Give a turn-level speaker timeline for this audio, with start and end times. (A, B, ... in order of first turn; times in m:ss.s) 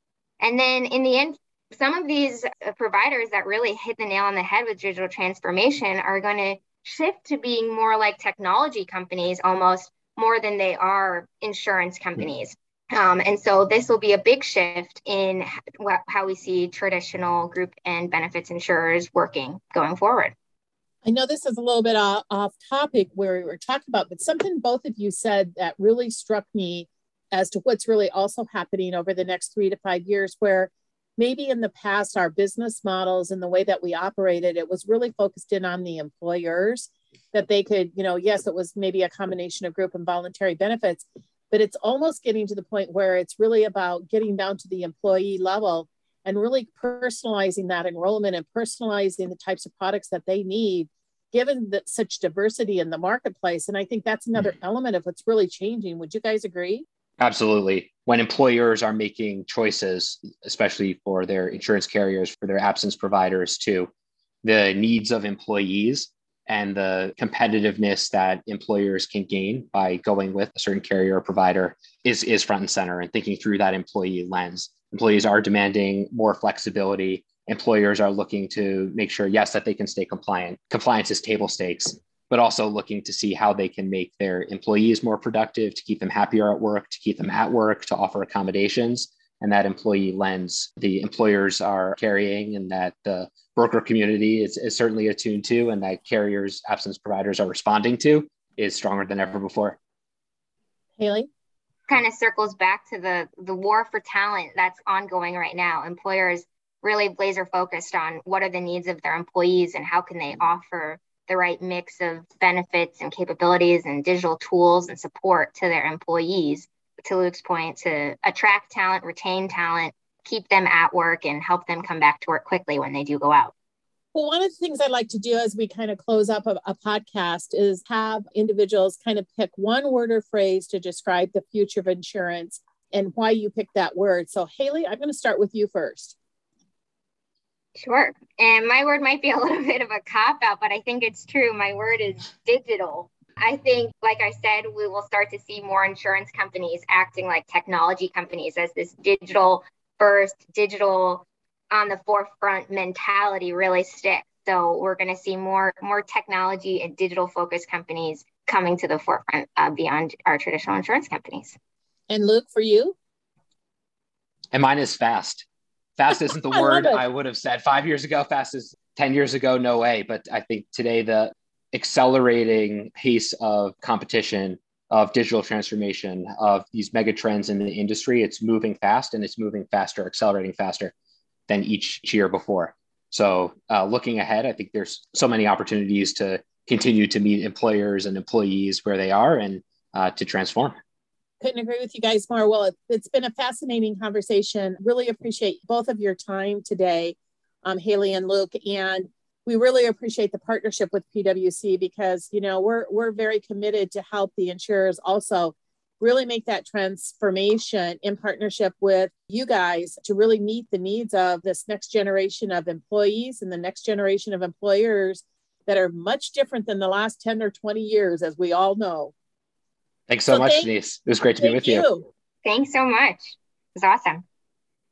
0:00.4-0:20.3 A
0:21.0-0:56.8 B
0:57.2-1:03.9 C
1:04.4-1:39.8 C
1:41.0-1:41.3 B
1:41.9-2:03.5 A
2:04.1-2:16.2 B
2:17.8-2:41.6 A
2:42.1-2:43.0 B
2:44.5-2:45.5 C
2:46.0-3:00.9 C
2:46.5-2:47.0 B
3:01.5-3:10.8 C
3:11.4-3:39.1 B
3:40.1-3:41.8 C
3:40.3-3:40.7 B
3:41.4-3:42.0 B
3:42.4-3:44.2 A